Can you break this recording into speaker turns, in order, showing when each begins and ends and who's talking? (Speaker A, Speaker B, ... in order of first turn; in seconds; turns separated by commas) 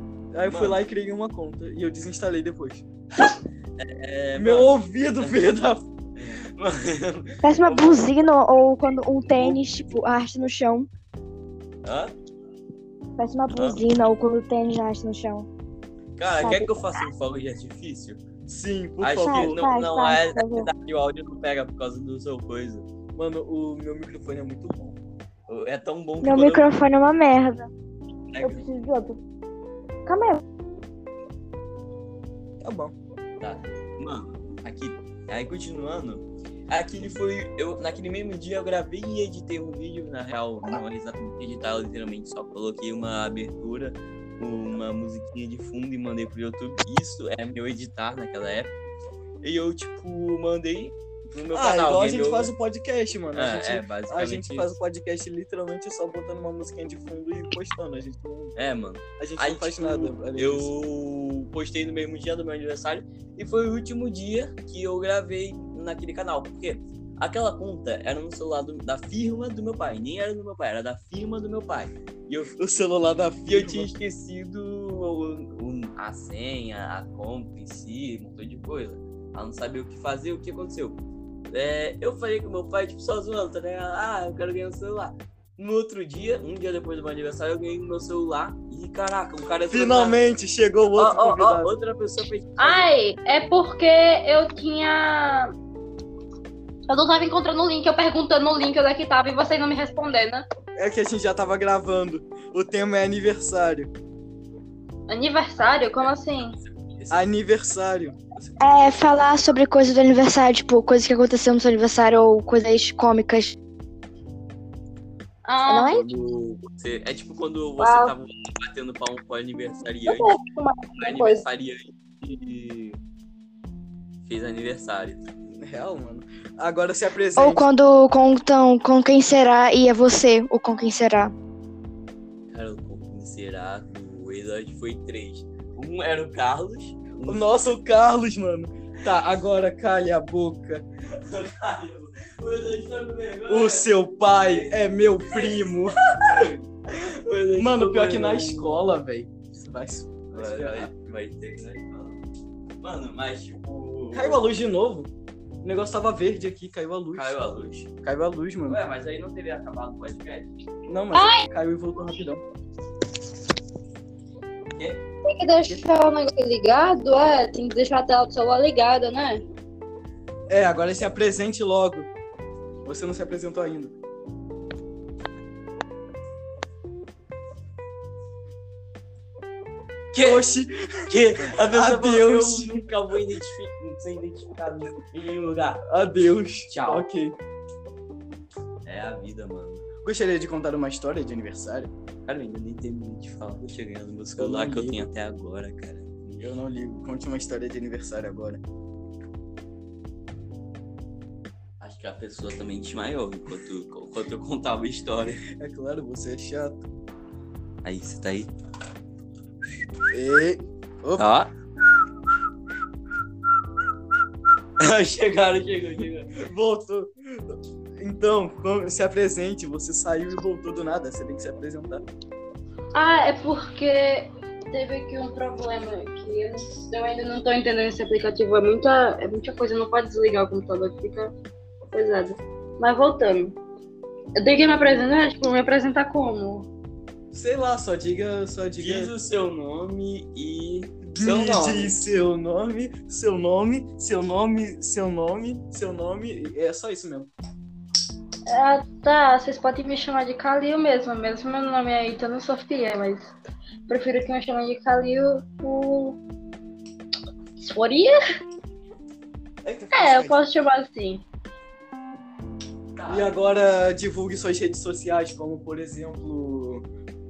Speaker A: 0.3-2.9, Speaker B: 0.4-0.8, Speaker B: 3.8-5.3, Speaker A: 4.4-5.8, Speaker B: 6.2-8.1, Speaker C: 7.4-10.9, Speaker B: 11.8-12.1, Speaker C: 13.2-15.5, Speaker B: 13.6-13.8, Speaker B: 16.2-18.2, Speaker C: 16.4-16.8, Speaker A: 18.5-19.6, Speaker B: 19.0-22.9, Speaker C: 19.2-20.7, Speaker A: 23.2-25.0, Speaker B: 25.5-26.8, Speaker C: 26.2-27.7, Speaker B: 28.3-28.6, Speaker C: 28.4-29.2, Speaker C: 30.1-30.4, Speaker A: 32.6-33.0, Speaker B: 33.4-48.8, Speaker B: 49.4-52.5, Speaker A: 51.5-58.5, Speaker B: 53.3-54.8, Speaker B: 58.6-72.6, Speaker A: 59.2-60.7, Speaker A: 72.6-73.9, Speaker B: 73.5-81.0, Speaker B: 81.5-90.2, Speaker A: 89.7-91.7, Speaker B: 91.0-92.9, Speaker D: 92.6-95.5, Speaker D: 96.9-100.5, Speaker A: 100.8-103.9, Speaker D: 105.1-106.6, Speaker B: 105.6-107.3, Speaker A: 107.1-109.0, Speaker C: 108.6-113.6, Speaker D: 115.5-116.0, Speaker C: 115.7-116.1, Speaker B: 116.0-120.4, Speaker D: 117.8-118.2, Speaker D: 120.1-121.4, Speaker B: 121.0-123.0, Speaker B: 124.2-125.3, Speaker A: 125.6-127.7, Speaker C: 127.4-131.3, Speaker B: 132.5-137.5, Speaker A: 137.2-140.8, Speaker B: 141.1-148.8, Speaker A: 143.5-146.0, Speaker A: 147.6-150.9, Speaker B: 150.3-152.2, Speaker B: 152.8-154.4, Speaker A: 154.1-155.1, Speaker A: 155.6-157.3, Speaker B: 157.1-157.9, Speaker A: 158.0-158.8, Speaker B: 158.7-160.5, Speaker A: 160.9-162.4, Speaker D: 161.1-161.5, Speaker B: 164.7-165.0, Speaker D: 165.2-169.4, Speaker A: 170.5-172.1, Speaker A: 172.8-173.9, Speaker B: 180.1-180.4, Speaker A: 180.2-182.9, Speaker B: 181.1-185.8, Speaker A: 185.8-187.4, Speaker B: 186.7-187.1, Speaker B: 188.8-189.8, Speaker A: 190.0-191.9, Speaker B: 192.3-196.4, Speaker A: 194.4-195.1, Speaker A: 196.4-198.6, Speaker B: 201.8-205.4, Speaker A: 205.6-206.8, Speaker B: 207.8-208.5, Speaker A: 210.1-211.3, Speaker B: 211.2-211.5, Speaker B: 214.8-216.3, Speaker A: 216.4-222.1, Speaker D: 222.9-231.3, Speaker D: 231.9-233.6, Speaker D: 234.4-236.7, Speaker A: 237.3-239.1, Speaker B: 238.8-241.9, Speaker A: 241.1-247.3, Speaker D: 248.5-253.3, Speaker D: 253.9-256.2, Speaker D: 257.6-258.1, Speaker A: 259.6-260.4, Speaker D: 259.9-261.2, Speaker B: 263.0-263.4, Speaker A: 263.1-266.9